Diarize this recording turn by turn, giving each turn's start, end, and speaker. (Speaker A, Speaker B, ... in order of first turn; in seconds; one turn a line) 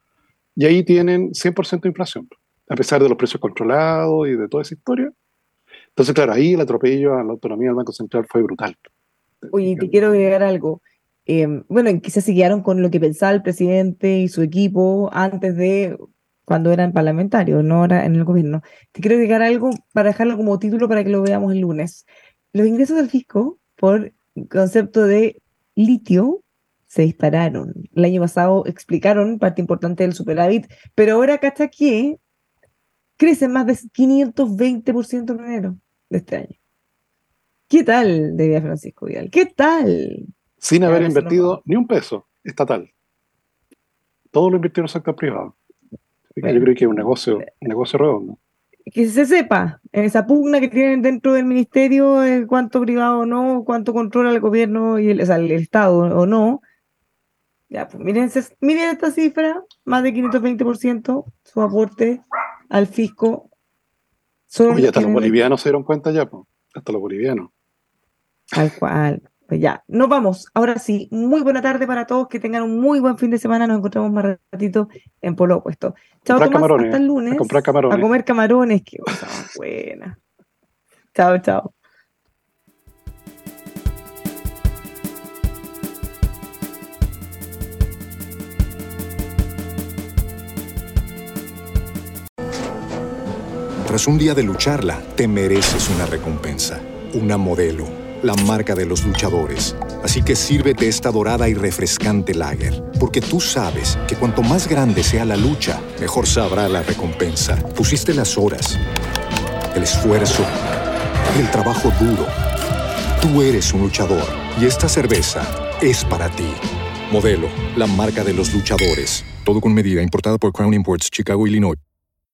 Speaker A: 0.6-5.1
Speaker A: 6.0-8.9
Speaker A: 9.4-10.2
Speaker B: 9.5-32.2
Speaker B: 33.2-36.5
Speaker B: 37.7-40.3
Speaker A: 40.6-42.9
Speaker B: 40.9-41.6
Speaker A: 44.3-45.5
Speaker A: 46.4-48.4
Speaker B: 46.4-46.7
Speaker B: 48.9-56.6
Speaker B: 57.7-63.5
Speaker B: 64.5-65.4
Speaker A: 64.7-67.5
Speaker B: 68.5-80.2
Speaker A: 76.3-78.1
Speaker B: 81.1-81.7
Speaker C: 93.8-108.8
Speaker C: 109.7-110.6
Speaker C: 111.3-112.3
Speaker C: 113.2-121.8